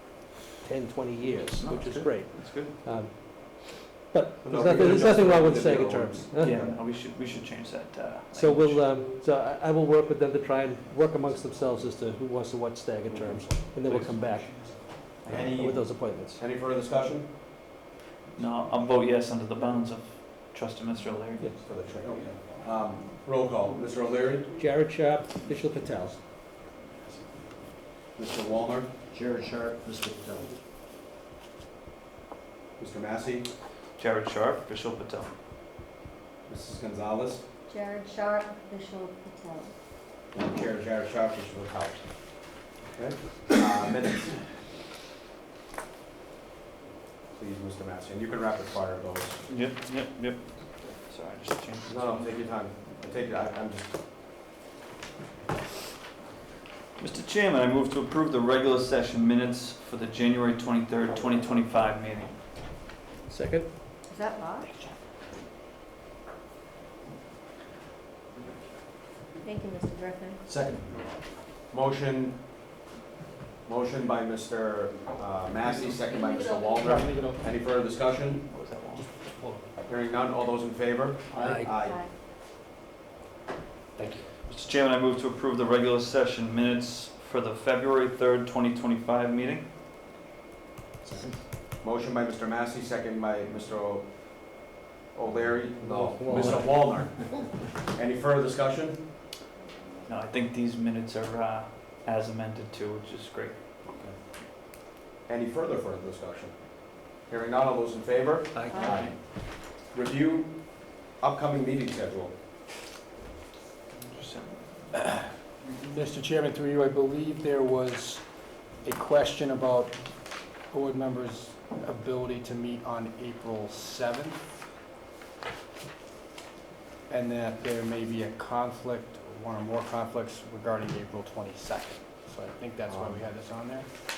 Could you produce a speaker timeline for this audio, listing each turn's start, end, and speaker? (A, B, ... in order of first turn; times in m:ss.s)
0:00.6-0:06.7 A
0:01.6-0:02.8 B
0:04.4-0:06.7 C
0:06.4-0:08.9 B
0:08.3-0:14.8 A
0:13.1-0:14.0 C
0:15.2-0:15.5 B
0:15.2-0:17.4 C
0:15.4-0:16.4 A
0:18.4-0:21.5 B
0:21.6-0:24.5 C
0:24.6-0:26.2 A
0:28.2-0:28.9 C
0:29.1-0:30.5 D
0:32.8-0:33.5 C
0:34.0-0:35.3 B
0:36.5-0:37.4 C
0:37.7-0:39.7 E
0:40.3-0:42.0 C
0:42.9-0:44.4 C
0:47.3-0:49.4 C
0:49.5-0:52.3 B
0:51.9-0:54.0 C
0:57.0-1:02.3 B
1:03.3-1:03.8 A
1:04.1-1:04.7 E
1:09.4-1:10.4 E
1:10.4-1:11.0 D
1:11.7-1:12.4 C
1:13.6-1:18.4 C
1:16.8-1:17.5 F
1:18.2-1:19.3 B
1:19.3-1:19.6 F
1:19.8-1:22.0 C
1:21.4-1:21.7 A
1:21.9-1:22.1 E
1:24.0-1:24.2 C
1:24.5-1:29.7 B
1:31.0-1:31.3 D
1:31.8-1:37.4 C
1:35.8-1:37.0 A
1:36.2-1:37.1 D
1:37.9-1:39.1 C
1:40.1-1:43.6 B
1:43.9-1:44.2 C
1:45.2-1:48.7 C
1:48.5-1:49.0 A
1:48.8-1:49.1 D
1:49.5-1:52.3 C
1:53.9-1:54.7 B
1:55.7-2:04.4 F
2:07.1-2:13.9 F
2:12.9-2:13.2 D